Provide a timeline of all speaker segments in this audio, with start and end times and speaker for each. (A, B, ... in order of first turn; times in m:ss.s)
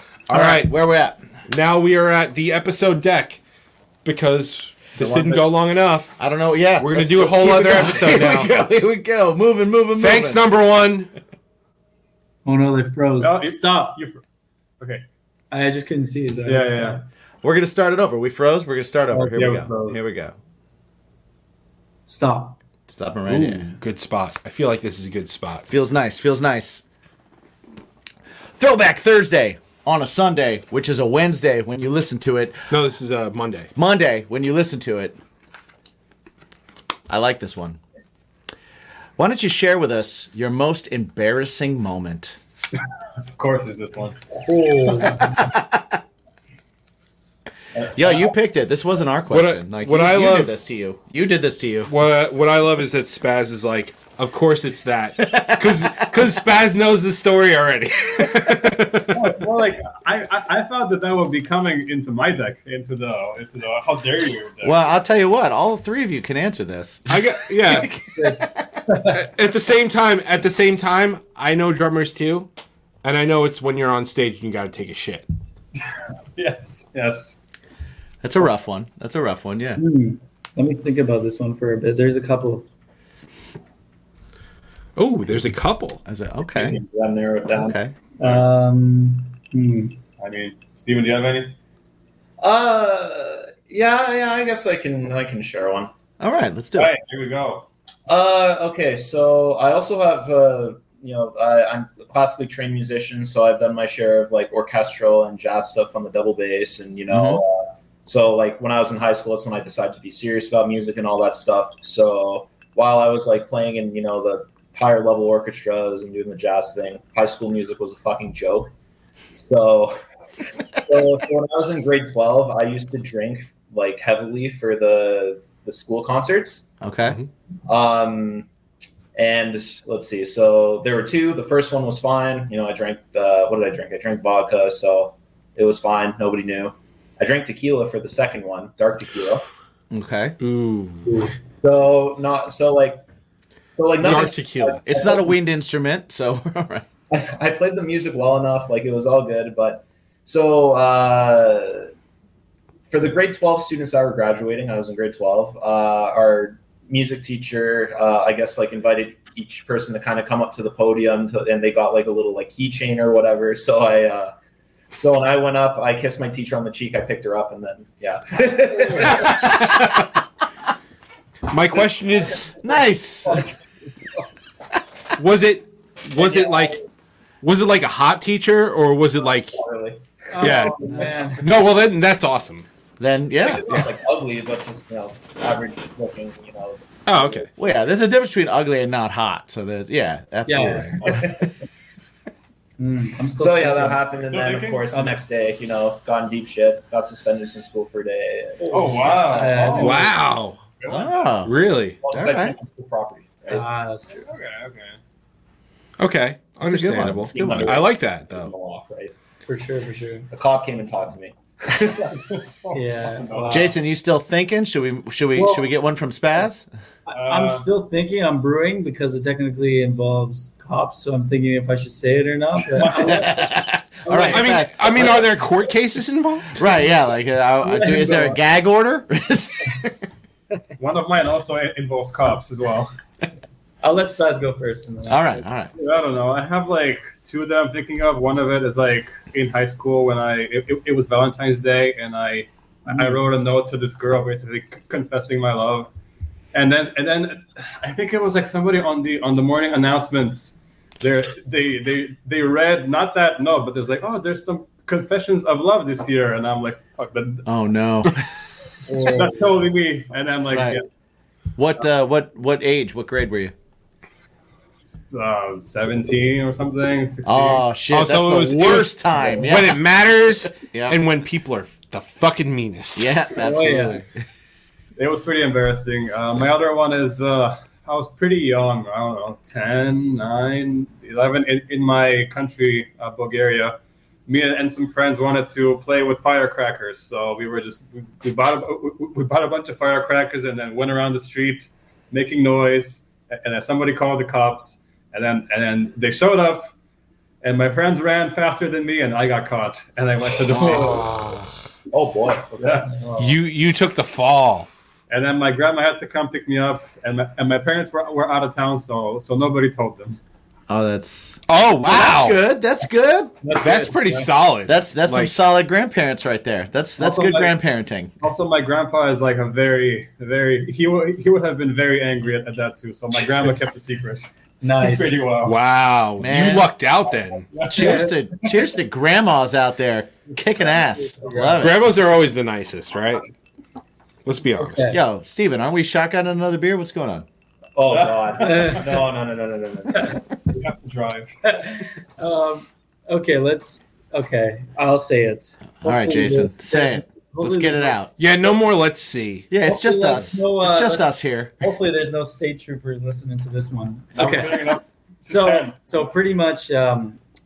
0:00.3-0:00.7 A
0:00.3-0:01.2 B
0:01.5-0:03.4 A
0:04.0-0:06.2 A
0:05.1-0:05.3 C
0:06.2-0:10.4 B
0:06.8-0:08.5 A
0:09.9-0:11.1 A
0:12.4-0:14.0 D
0:13.2-0:14.2 C
0:14.8-0:15.0 C
0:15.5-0:17.0 D
0:16.4-0:17.0 C
0:17.4-0:20.3 B
0:19.1-0:20.0 C
0:22.1-0:22.6 D
0:22.9-0:23.7 B
0:23.3-0:25.7 A
0:25.7-0:26.8 B
0:28.6-0:32.6 B
0:32.7-0:33.7 A
0:33.7-0:35.2 B
0:37.1-0:37.8 B
0:39.2-0:42.4 B
0:43.3-0:44.5 C
0:44.4-0:45.3 D
0:45.3-0:45.8 B
0:47.9-0:51.9 B
0:49.3-0:50.6 A
0:51.9-0:59.3 A
0:55.2-0:56.1 B
0:59.1-1:04.9 C
1:04.6-1:08.8 B
1:07.1-1:07.9 A
1:08.2-1:09.2 D
1:09.1-1:12.5 A
1:13.0-1:15.2 A
1:16.4-1:17.4 C
1:18.2-1:19.8 B
1:19.8-1:22.6 D
1:25.0-1:26.0 A
1:26.0-1:26.8 B
1:26.5-1:27.8 E
1:27.5-1:27.9 B
1:28.2-1:30.0 D
1:30.2-1:31.6 C
1:32.4-1:35.9 E
1:36.2-1:36.9 B
1:36.8-1:37.7 C
1:38.1-1:58.7 E
1:47.1-1:47.4 B
1:59.4-2:00.0 E
2:00.8-2:06.7 E
2:06.8-2:07.2 B
2:07.6-2:08.5 E
2:09.1-2:19.4 E
2:19.9-2:20.4 B
2:20.4-2:21.2 A
2:21.6-2:23.0 E
2:23.7-2:25.3 E
2:24.0-2:24.8 A
2:24.8-2:26.9 B
2:27.1-2:31.9 E
2:32.9-2:44.3 E
2:44.9-2:49.5 E
2:49.0-2:50.0 A
2:51.5-2:52.5 A
2:52.6-2:53.4 B
2:55.2-2:56.8 A
2:56.2-2:56.8 E
2:57.4-2:59.6 A
2:59.5-3:00.7 E
3:00.3-3:01.5 D
3:00.4-3:00.8 A
3:01.4-3:02.6 A
3:03.0-3:03.8 B
3:03.4-3:07.4 E
3:07.0-3:07.5 A
3:07.6-3:11.3 B
3:10.4-3:10.9 D
3:11.0-3:11.4 E
3:12.8-3:14.0 D
3:13.4-3:19.6 E
3:14.2-3:15.0 C
3:14.9-3:15.2 D
3:18.6-3:20.1 D
3:18.7-3:20.1 C
3:19.8-3:20.6 A
3:20.8-3:21.1 C
3:20.9-3:21.6 B
3:21.4-3:22.0 A
3:22.0-3:23.6 E
3:22.1-3:22.5 B
3:23.5-3:24.2 D
3:24.1-3:25.0 C
3:26.0-3:28.5 A
3:26.6-3:27.8 B
3:27.0-3:29.1 E
3:29.5-3:30.3 D
3:30.3-3:32.2 E
3:32.1-3:33.8 C
3:32.7-3:33.8 D
3:33.5-3:36.7 B
3:37.0-3:43.5 D
3:37.1-3:37.7 C
3:42.8-3:43.3 C
3:43.0-3:45.3 B
3:44.0-3:44.4 D
3:44.3-3:46.8 A
3:46.5-3:50.0 B
3:47.7-3:48.3 D
3:50.8-3:52.9 C
3:53.8-3:55.4 D
3:55.1-3:55.7 B
3:55.8-4:05.9 C
4:02.9-4:03.2 D
4:06.5-4:17.4 C
4:17.4-4:18.2 B
4:18.9-4:19.2 D
4:19.0-4:20.8 C
4:20.5-4:20.8 B
4:21.6-4:23.5 B
4:25.1-4:27.6 C
4:27.2-4:29.8 B
4:27.9-4:33.1 A
4:30.7-4:31.0 B
4:33.0-4:34.1 B
4:33.3-4:34.0 D
4:35.0-4:56.7 C
4:57.4-5:01.1 C
5:01.0-5:01.5 A
5:01.9-5:03.1 E
5:02.6-5:03.0 C
5:03.2-5:04.7 A
5:05.1-5:10.2 C
5:10.7-5:13.4 B
5:11.5-5:12.4 A
5:13.4-5:14.3 C
5:13.5-5:15.3 A
5:14.6-5:18.1 B
5:17.0-5:17.5 C
5:18.2-5:25.6 C
5:24.6-5:25.1 D
5:25.4-5:27.5 A
5:26.2-5:26.7 B
5:27.5-5:28.1 C
5:27.7-5:31.9 B
5:27.7-5:28.1 D
5:30.6-5:31.6 D
5:31.6-5:33.2 A
5:34.2-5:35.0 A
5:34.6-5:35.0 D
5:34.9-5:37.2 B
5:37.8-5:40.2 E
5:37.9-5:39.0 C
5:38.4-5:38.9 D
5:40.5-5:41.3 C
5:41.4-5:48.0 D
5:45.8-5:48.1 B
5:48.2-5:49.5 A
5:49.5-5:51.6 B
5:49.6-5:57.2 D
5:54.2-5:55.9 C